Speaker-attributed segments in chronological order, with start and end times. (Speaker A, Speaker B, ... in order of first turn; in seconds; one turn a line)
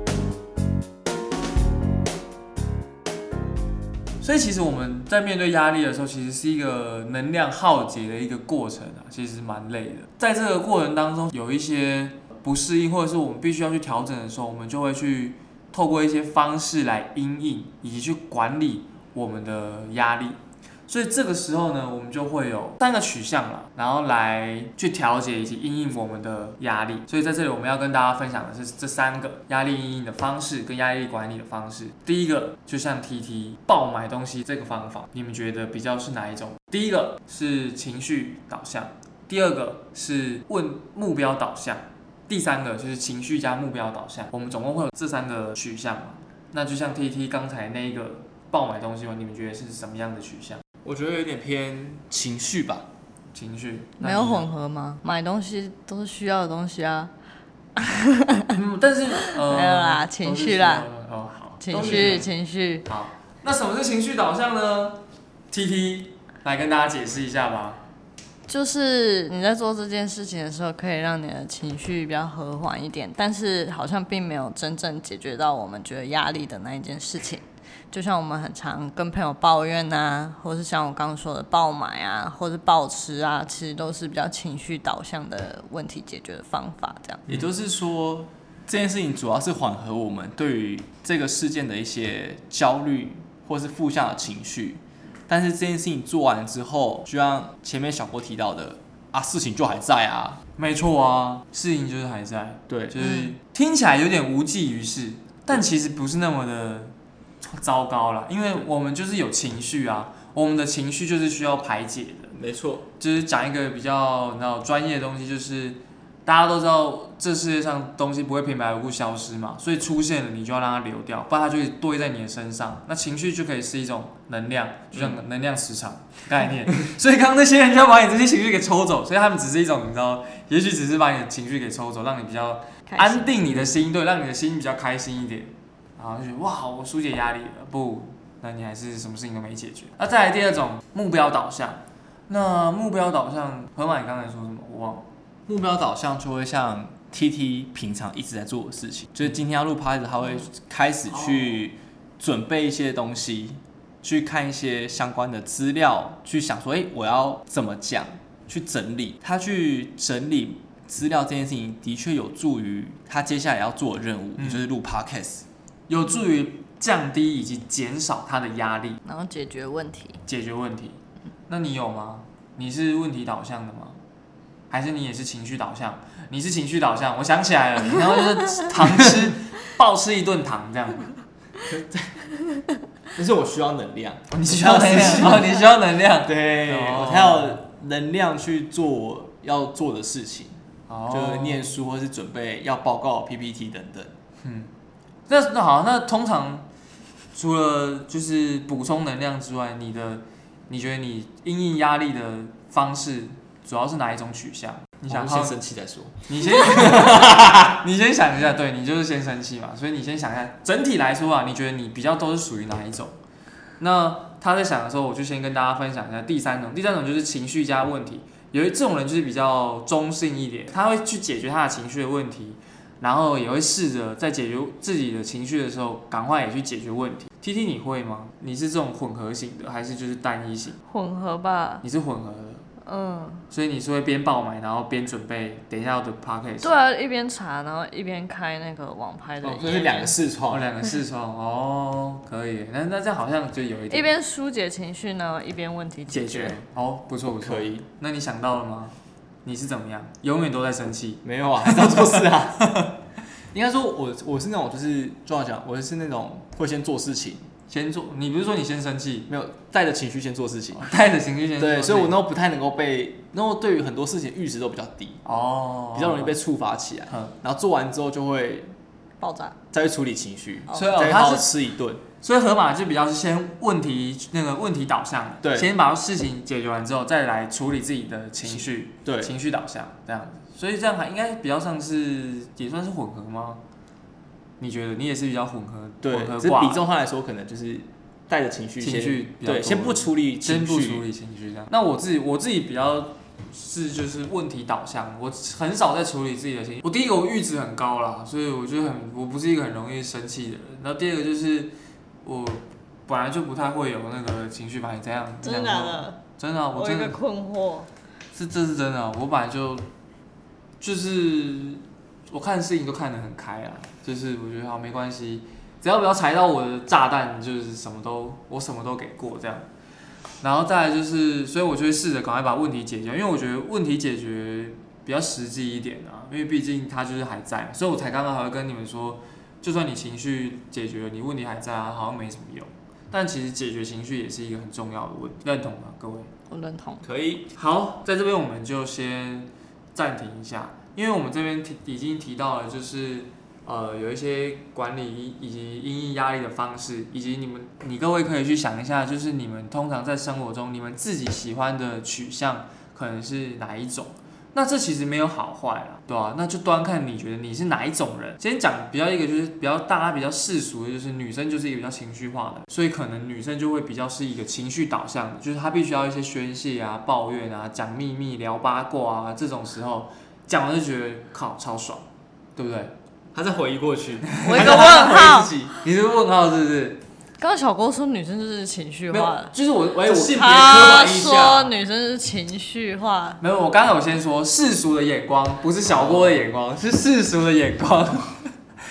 Speaker A: 4.2-50.6
Speaker B: 50.8-52.9
Speaker A: 53.3-54.5
Speaker C: 54.0-57.1
Speaker C: 57.8-58.6
Speaker A: 58.5-62.3
Speaker C: 59.2-60.9
Speaker C: 61.6-62.9
Speaker B: 61.7-62.2
Speaker A: 62.9-67.8
Speaker C: 68.5-87.2
Speaker B: 87.3-100.4
Speaker A: 100.6-112.3
Speaker B: 102.7-103.0
Speaker B: 112.3-112.9
Speaker A: 113.0-145.1
Speaker B: 124.9-125.2
Speaker C: 132.9-133.5
Speaker B: 145.5-165.4
Speaker A: 151.2-151.6
Speaker A: 164.4-164.7
Speaker A: 165.9-169.0
Speaker C: 169.1-170.2
Speaker A: 170.3-174.0
Speaker A: 174.7-181.2
Speaker B: 181.6-182.2
Speaker B: 183.2-185.7
Speaker A: 184.3-187.6
Speaker B: 186.2-194.2
Speaker A: 190.9-191.7
Speaker A: 194.4-194.7
Speaker A: 195.3-196.7
Speaker A: 197.3-205.6
Speaker B: 205.1-207.8
Speaker A: 206.3-213.2
Speaker A: 213.8-230.8
Speaker C: 230.9-231.8
Speaker A: 231.8-232.7
Speaker C: 232.8-233.4
Speaker A: 233.5-236.8
Speaker C: 236.6-240.2
Speaker B: 239.4-240.7
Speaker A: 240.5-244.1
Speaker C: 243.9-246.6
Speaker A: 246.1-252.9
Speaker B: 247.4-247.8
Speaker B: 251.2-252.9
Speaker B: 253.5-257.5
Speaker A: 257.7-259.3
Speaker B: 259.3-260.9
Speaker A: 260.8-262.2
Speaker B: 261.6-265.2
Speaker A: 265.2-266.4
Speaker B: 265.9-268.7
Speaker A: 267.1-267.3
Speaker C: 269.2-269.6
Speaker B: 269.7-272.0
Speaker A: 270.7-271.5
Speaker A: 272.2-283.6
Speaker B: 275.4-275.7
Speaker B: 278.4-279.4
Speaker A: 284.6-286.9
Speaker B: 286.0-291.1
Speaker A: 288.8-301.7
Speaker A: 302.2-307.2
Speaker C: 305.4-306.2
Speaker C: 306.7-307.9
Speaker A: 308.3-309.9
Speaker A: 310.8-319.7
Speaker A: 320.4-336.3
Speaker C: 336.5-337.0
Speaker B: 337.0-337.5
Speaker A: 337.6-372.9
Speaker B: 373.3-375.8
Speaker A: 374.3-375.2
Speaker C: 374.4-375.5
Speaker A: 375.8-377.0
Speaker C: 377.4-379.5
Speaker A: 379.1-380.8
Speaker B: 379.8-381.7
Speaker C: 380.1-383.4
Speaker A: 383.4-388.5
Speaker B: 385.9-386.4